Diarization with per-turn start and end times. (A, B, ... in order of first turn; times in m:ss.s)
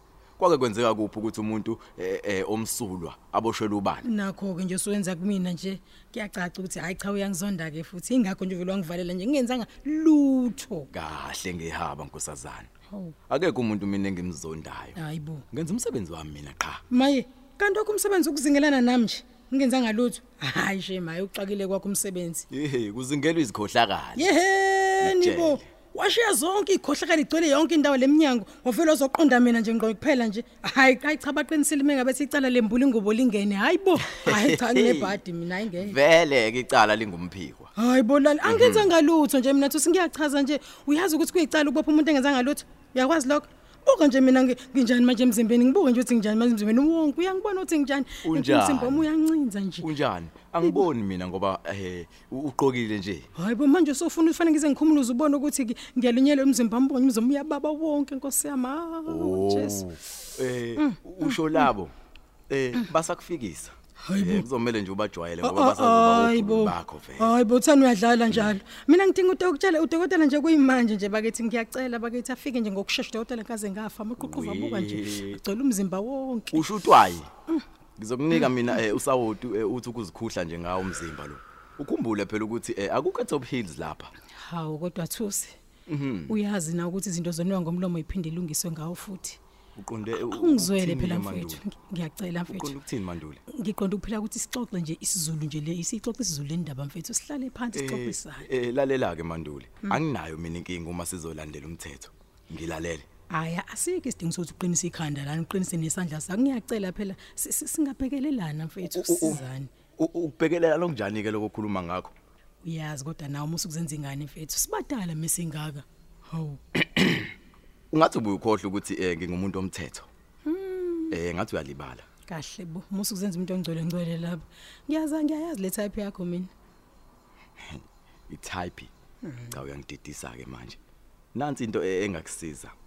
0:00.4-0:04.0 A
0:04.1-0:10.9 B
0:10.9-0:12.7 A
0:13.3-0:15.0 A
0:15.0-0:15.4 B
0:15.5-0:16.8 A
0:16.9-0:22.4 B
0:22.5-0:24.3 A
0:24.2-0:35.9 B
0:25.0-0:25.6 A
0:34.1-0:35.2 A
0:35.8-0:37.7 A
0:37.8-0:49.8 B
0:38.4-0:38.9 A
0:48.2-0:49.1 A
0:49.8-0:53.3 A
0:53.4-0:59.8 B
0:59.1-1:01.9 A
1:02.5-1:07.3 A
1:04.1-1:04.4 B
1:05.4-1:16.6 B
1:08.3-1:08.5 A
1:14.2-1:15.4 A
1:16.5-1:17.3 A
1:18.0-1:24.1 A
1:24.4-1:25.5 B
1:25.9-1:26.4 A
1:26.3-1:29.4 B
1:29.8-1:31.6 A
1:30.3-1:32.7 B
1:32.4-1:33.4 A
1:33.6-1:38.4 B
1:37.7-1:43.0 A
1:43.3-1:49.7 B
1:48.9-1:49.4 A
1:50.0-1:52.1 A
1:52.6-1:56.6 B
1:57.9-2:00.1 A
2:00.4-2:01.1 B
2:01.1-2:02.0 A
2:02.3-2:06.5 B
2:07.6-2:08.9 A
2:09.5-2:10.8 A
2:11.3-2:12.7 A